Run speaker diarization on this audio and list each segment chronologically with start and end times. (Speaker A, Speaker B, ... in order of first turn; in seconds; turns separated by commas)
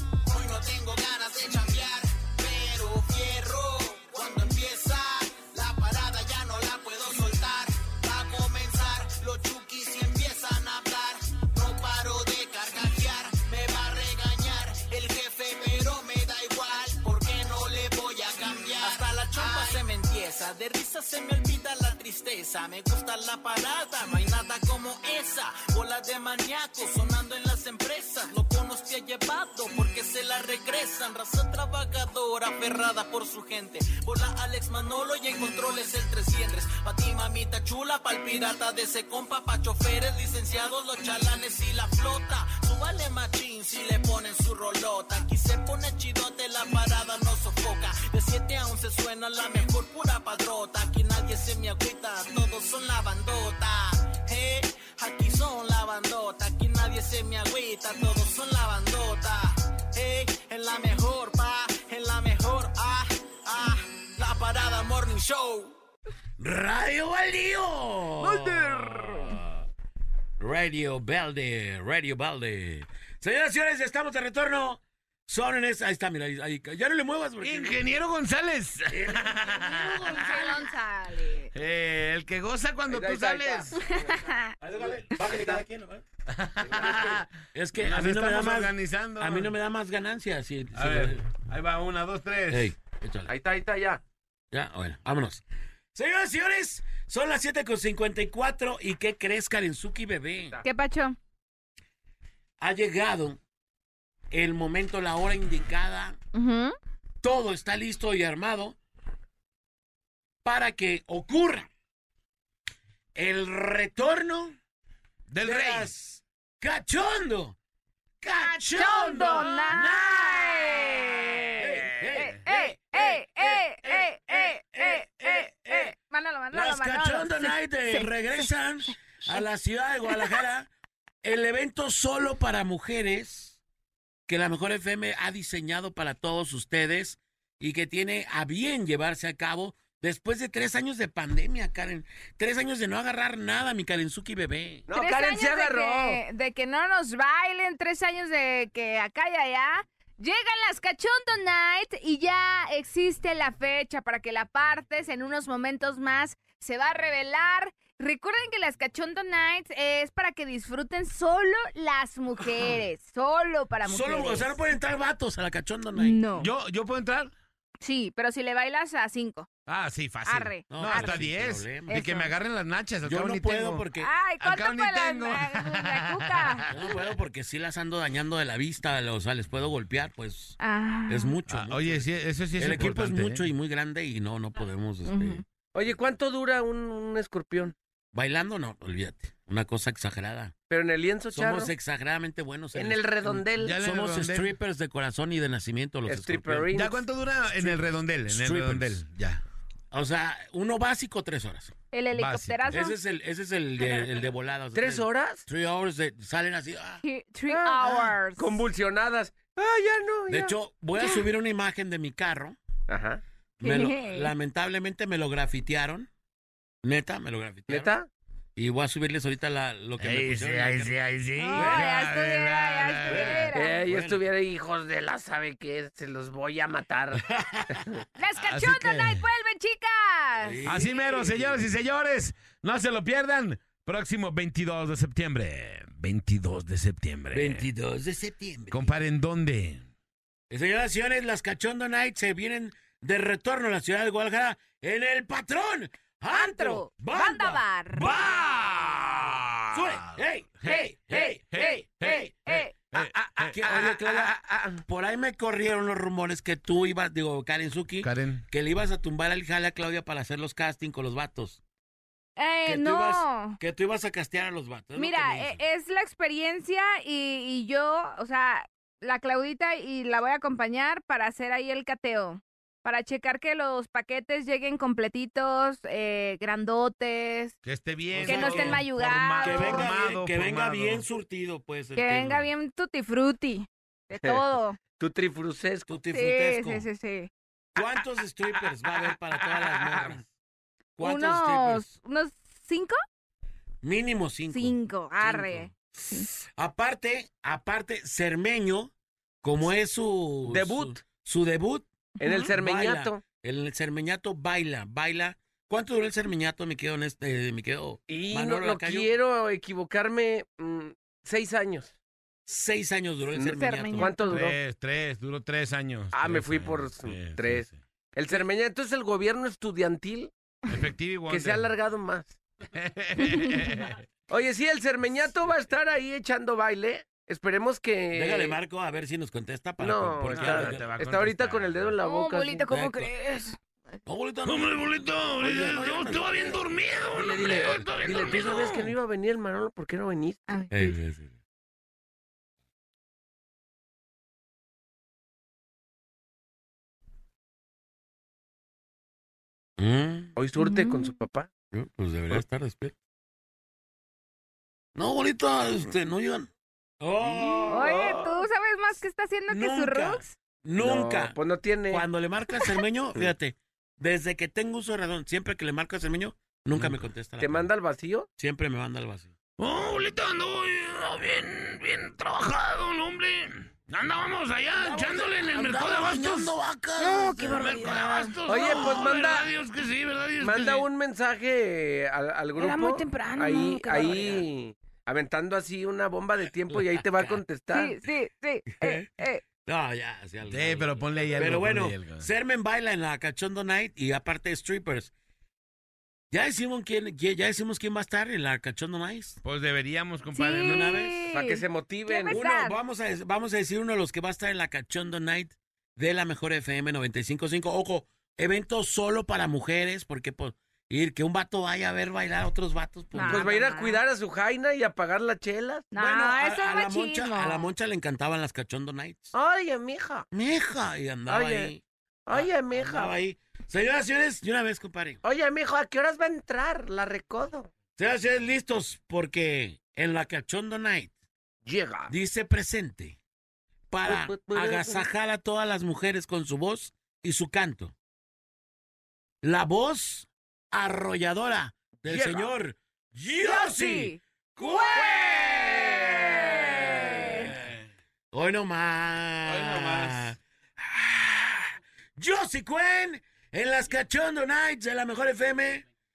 Speaker A: 0.2-65.7, Speaker B: 66.4-69.6, Speaker B: 70.4-77.8, Speaker C: 77.4-80.4, Speaker B: 78.9-80.7, Speaker D: 80.0-81.5, Speaker C: 81.5-83.7, Speaker E: 82.9-84.1, Speaker D: 83.9-84.5, Speaker B: 84.6-86.0, Speaker E: 85.3-85.5, Speaker C: 86.3-89.5, Speaker B: 86.7-91.3, Speaker C: 90.7-92.7, Speaker B: 92.5-93.3, Speaker E: 93.3-94.0, Speaker B: 94.5-95.4, Speaker B: 95.9-100.6, Speaker D: 100.6-101.2, Speaker B: 102.6-103.4, Speaker B: 104.3-106.2, Speaker D: 106.3-106.8, Speaker B: 107.2-108.8, Speaker B: 110.4-111.7, Speaker B: 113.1-114.6, Speaker C: 115.3-115.9, Speaker B: 115.4-117.5, Speaker B: 118.2-125.9, Speaker D: 118.4-128.5, Speaker B: 126.5-130.7, Speaker D: 130.1-130.4, Speaker B: 131.2-133.6, Speaker B: 134.3-144.9, Speaker E: 144.9-146.2, Speaker D: 144.9-164.6, Speaker B: 163.8-166.2, Speaker D: 165.9-166.5, Speaker C: 166.3-167.3, Speaker D: 167.8-169.5, Speaker C: 169.7-173.8, Speaker D: 170.2-171.2, Speaker B: 170.7-172.0, Speaker D: 171.9-172.3, Speaker B: 173.0-174.1, Speaker D: 173.9-176.7, Speaker C: 174.4-176.7, Speaker B: 176.7-185.4, Speaker D: 180.6-181.4, Speaker C: 181.5-183.4, Speaker D: 185.1-185.4, Speaker E: 185.7-187.7, Speaker B: 188.1-190.5, Speaker E: 190.7-191.7, Speaker B: 191.3-196.7, Speaker E: 192.7-193.8, Speaker C: 193.6-194.5, Speaker E: 196.1-197.0, Speaker C: 196.7-199.4, Speaker B: 197.6-199.0, Speaker B: 199.9-201.7, Speaker D: 201.9-203.0, Speaker C: 202.1-202.8, Speaker B: 202.7-207.0, Speaker E: 204.7-205.4, Speaker D: 207.0-208.6, Speaker E: 207.5-210.5, Speaker B: 210.3-212.6, Speaker D: 210.9-211.3, Speaker E: 212.9-213.2, Speaker D: 213.6-214.3, Speaker B: 213.6-216.1, Speaker B: 216.8-217.9, Speaker E: 217.7-218.1, Speaker B: 218.6-221.0, Speaker C: 220.0-223.4, Speaker D: 221.4-223.8, Speaker B: 221.5-222.0, Speaker B: 223.1-224.2, Speaker E: 223.5-227.9, Speaker B: 227.3-227.7, Speaker D: 228.2-230.6, Speaker C: 228.4-229.3, Speaker B: 230.4-231.6, Speaker C: 230.6-237.6, Speaker B: 237.3-238.9, Speaker C: 238.7-239.9, Speaker B: 240.5-252.5, Speaker D: 246.3-248.3, Speaker C: 248.4-250.2, Speaker D: 250.6-252.8, Speaker C: 251.5-251.8, Speaker C: 252.5-253.6, Speaker B: 253.4-254.3, Speaker E: 253.4-254.8, Speaker B: 254.9-261.6, Speaker C: 258.0-258.4, Speaker D: 262.4-263.6, Speaker B: 262.6-265.6, Speaker D: 264.9-277.6, Speaker C: 277.6-281.0, Speaker B: 278.1-278.9, Speaker D: 278.2-279.9, Speaker B: 279.4-282.5, Speaker D: 282.0-284.8, Speaker E: 285.0-285.9, Speaker B: 285.9-286.9, Speaker D: 286.1-287.3, Speaker B: 287.8-290.2, Speaker E: 288.8-290.2, Speaker B: 291.0-291.9, Speaker D: 291.0-293.0, Speaker B: 293.8-298.9, Speaker D: 294.5-296.3, Speaker B: 299.4-301.9, Speaker E: 300.5-301.0, Speaker E: 302.2-303.2, Speaker D: 302.2-302.5, Speaker B: 302.4-309.1, Speaker E: 308.1-311.9, Speaker B: 312.4-314.2, Speaker E: 313.3-314.5, Speaker D: 313.6-314.5, Speaker C: 314.3-317.7, Speaker E: 316.1-320.3, Speaker C: 320.7-321.7, Speaker E: 321.3-322.4, Speaker C: 322.7-324.0, Speaker D: 323.2-323.8, Speaker E: 324.3-328.6, Speaker B: 328.1-330.9, Speaker E: 329.8-332.7, Speaker C: 330.3-331.9, Speaker D: 332.0-333.6, Speaker B: 332.7-333.1, Speaker B: 334.1-336.6, Speaker C: 334.4-338.9, Speaker B: 337.1-338.4, Speaker E: 337.8-340.4, Speaker D: 340.5-341.0, Speaker B: 340.7-341.3, Speaker B: 349.8-350.3, Speaker E: 350.4-351.5, Speaker D: 350.6-351.1, Speaker B: 351.7-352.9, Speaker B: 354.9-356.5, Speaker B: 357.0-358.3, Speaker E: 357.4-358.2, Speaker D: 357.7-360.3, Speaker B: 359.5-361.3, Speaker E: 360.8-362.0, Speaker B: 361.9-367.6, Speaker E: 367.4-368.3, Speaker B: 368.4-369.3, Speaker C: 369.6-380.9, Speaker B: 374.8-378.3, Speaker D: 377.1-378.3, Speaker E: 378.4-379.5, Speaker E: 380.4-388.0, Speaker D: 382.6-384.4, Speaker B: 386.7-387.4, Speaker D: 387.7-389.4, Speaker B: 388.7-395.1, Speaker C: 390.5-392.3, Speaker B: 396.3-399.4, Speaker C: 399.4-400.9, Speaker D: 400.3-402.8, Speaker B: 400.6-401.3, Speaker E: 401.3-402.4, Speaker B: 402.3-413.5, Speaker D: 413.1-414.0, Speaker E: 413.3-415.9, Speaker D: 415.9-417.7, Speaker B: 415.9-419.3, Speaker E: 419.3-420.2, Speaker B: 420.3-425.2, Speaker E: 421.3-421.7, Speaker E: 422.2-423.1, Speaker E: 425.2-427.7, Speaker B: 428.0-431.1, Speaker E: 431.6-432.1, Speaker B: 432.1-433.2, Speaker B: 433.9-437.9, Speaker E: 434.0-435.1, Speaker B: 439.4-447.7, Speaker E: 442.1-442.5, Speaker D: 443.4-447.5, Speaker C: 446.5-447.6, Speaker B: 448.3-455.8, Speaker C: 449.5-450.3